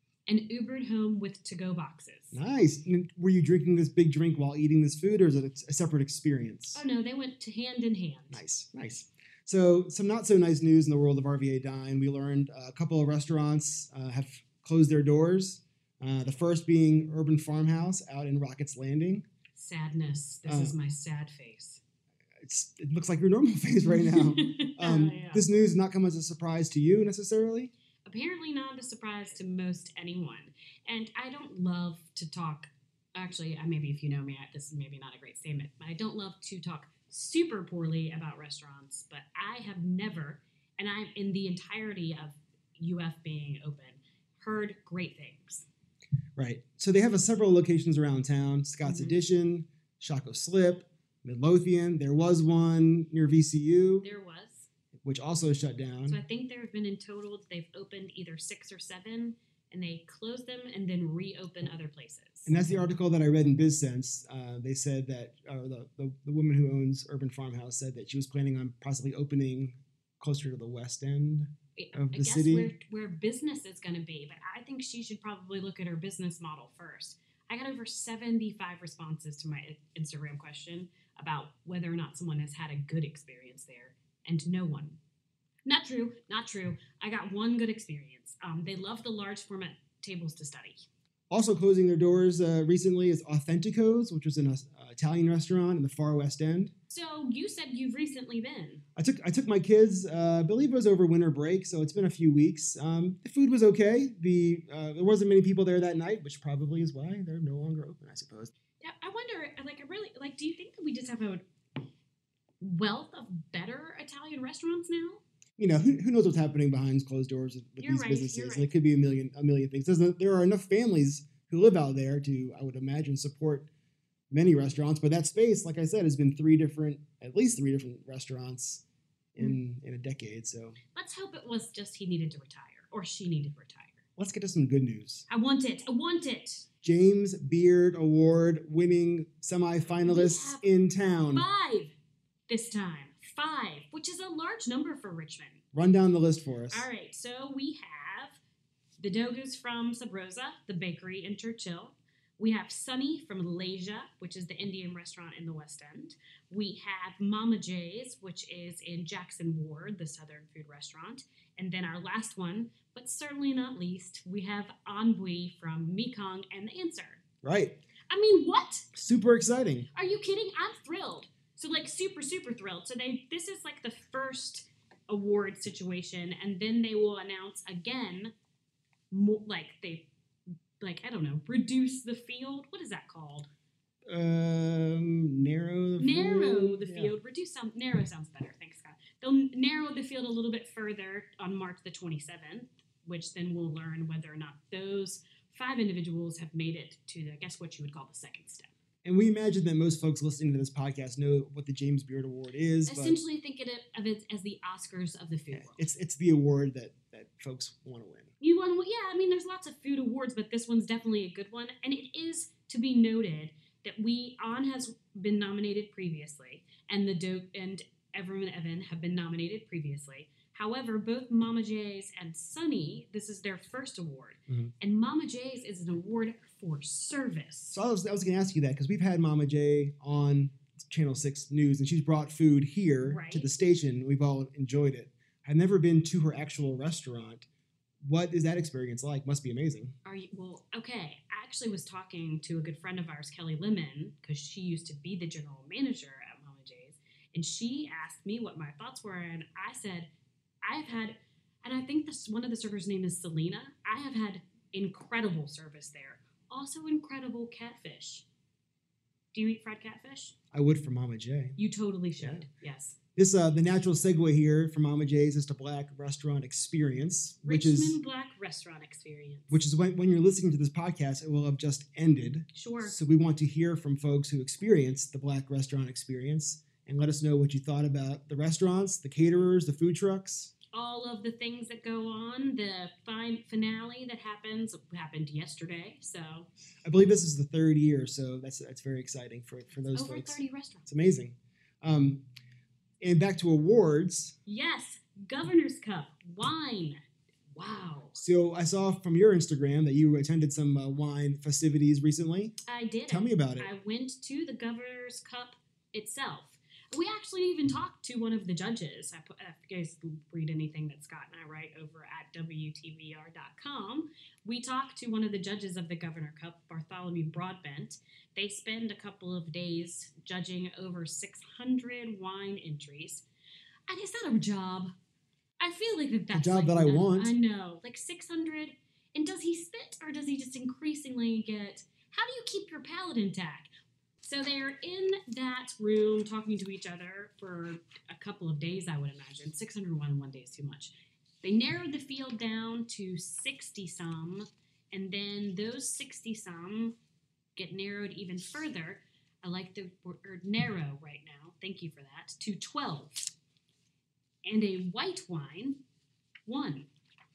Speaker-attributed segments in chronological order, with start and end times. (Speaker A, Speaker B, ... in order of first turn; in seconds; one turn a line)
Speaker A: 0.3-2.4
Speaker B: 2.3-6.8
Speaker A: 6.7-8.4
Speaker B: 8.3-19.3
Speaker A: 19.6-21.8
Speaker B: 20.5-20.8
Speaker B: 22.4-27.7
Speaker A: 23.9-25.4
Speaker A: 28.1-45.6
Speaker B: 46.4-54.1
Speaker A: 48.9-49.1
Speaker A: 54.0-54.7
Speaker B: 55.0-56.2
Speaker A: 56.1-62.7
Speaker B: 62.5-72.7
Speaker A: 71.8-85.0
Speaker A: 85.7-90.8
Speaker B: 91.3-96.7
Speaker A: 96.9-98.8
Speaker B: 99.0-108.5
Speaker A: 108.8-111.5
Speaker A: 112.6-115.2
Speaker B: 115.6-123.7
Speaker A: 117.8-118.7
Speaker B: 124.3-128.8
Speaker B: 129.3-130.8
Speaker A: 131.0-134.0
Speaker B: 134.2-135.2
Speaker A: 135.3-136.7
Speaker B: 136.8-141.5
Speaker A: 140.0-140.6
Speaker A: 141.3-141.9
Speaker A: 142.5-145.6
Speaker B: 145.7-146.9
Speaker A: 146.7-148.4
Speaker A: 149.0-167.2
Speaker B: 167.4-167.8
Speaker A: 168.1-168.8
Speaker B: 168.9-169.9
Speaker A: 169.9-178.3
Speaker A: 179.1-180.1
Speaker A: 180.8-183.5
Speaker B: 184.1-187.1
Speaker A: 186.0-198.7
Speaker B: 199.1-203.2
Speaker A: 202.9-205.8
Speaker B: 205.5-208.3
Speaker A: 208.4-227.8
Speaker B: 227.7-237.5
Speaker A: 233.1-233.5
Speaker B: 238.0-239.9
Speaker A: 240.1-250.1
Speaker A: 250.6-258.2
Speaker A: 259.3-260.3
Speaker B: 260.5-261.6
Speaker A: 261.6-262.9
Speaker B: 262.2-262.4
Speaker B: 263.2-268.0
Speaker A: 267.4-269.6
Speaker B: 269.5-280.5
Speaker A: 272.5-273.0
Speaker A: 280.7-286.5
Speaker B: 286.8-292.2
Speaker A: 289.9-290.9
Speaker B: 293.0-294.4
Speaker A: 294.5-297.0
Speaker A: 297.6-298.2
Speaker B: 298.2-302.6
Speaker A: 302.7-323.2
Speaker B: 303.1-303.7
Speaker A: 323.9-324.9
Speaker A: 325.6-333.7
Speaker B: 326.3-327.4
Speaker A: 334.2-347.0
Speaker A: 347.6-353.3
Speaker A: 354.4-355.8
Speaker A: 356.5-356.9